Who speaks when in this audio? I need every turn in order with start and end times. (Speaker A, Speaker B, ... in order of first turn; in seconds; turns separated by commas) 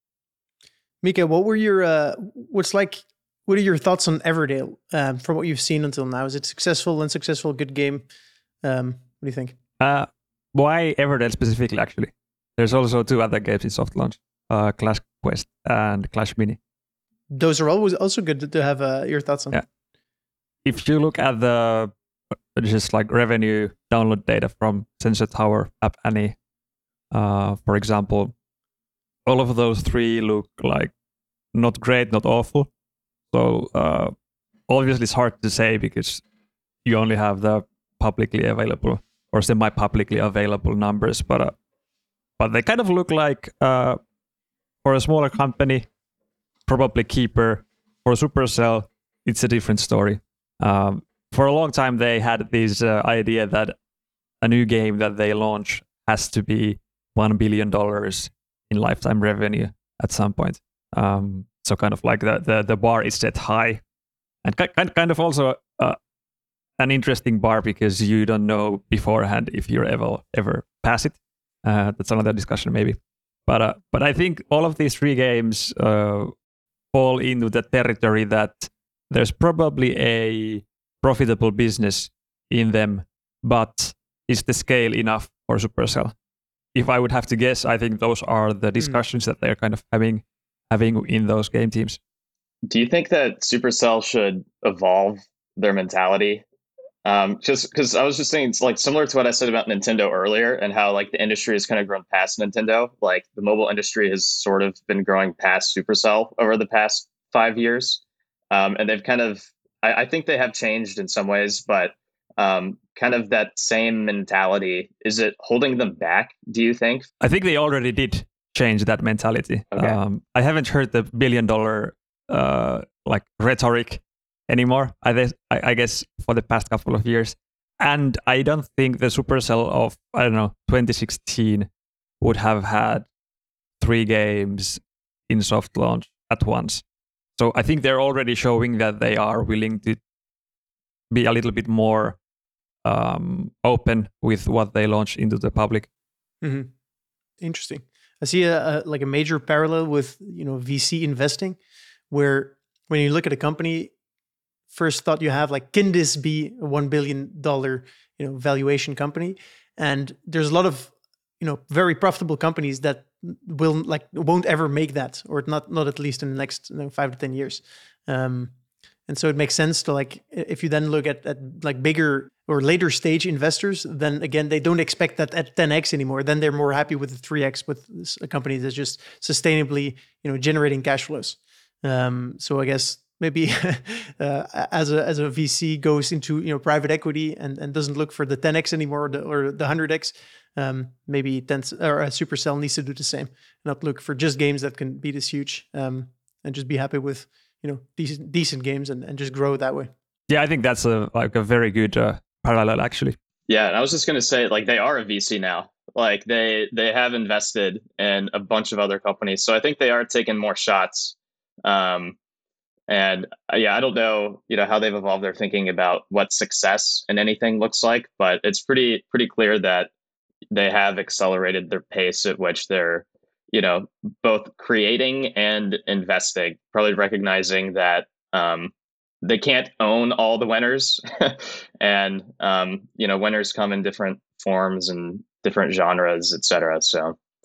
Speaker A: 1.0-8.1, Speaker A: 8.6-9.6, Speaker B: 9.8-16.6, Speaker A: 17.3-19.6, Speaker B: 20.6-21.9, Speaker B: 22.6-26.4, Speaker B: 27.1-28.3, Speaker B: 29.3-30.9, Speaker B: 31.5-32.7, Speaker B: 33.3-34.1, Speaker B: 34.7-36.2, Speaker B: 36.9-41.6, Speaker B: 42.4-44.0, Speaker B: 44.8-45.9, Speaker B: 46.7-53.8, Speaker B: 54.4-63.8, Speaker B: 64.4-66.0, Speaker B: 66.8-76.3, Speaker B: 76.9-86.1, Speaker B: 86.8-92.0, Speaker C: 92.7-96.4, Speaker C: 97.0-117.1, Speaker B: 117.2-131.7, Speaker B: 132.2-133.1, Speaker B: 133.8-136.8, Speaker B: 137.4-140.0, Speaker B: 141.1-142.2, Speaker B: 142.8-145.9, Speaker A: 146.4-146.7, Speaker A: 147.4-151.6, Speaker A: 152.1-153.9, Speaker A: 154.7-168.5, Speaker A: 169.1-199.9, Speaker B: 200.3-203.2, Speaker C: 203.5-212.2, Speaker C: 212.9-219.9, Speaker C: 220.5-228.7, Speaker C: 229.2-237.2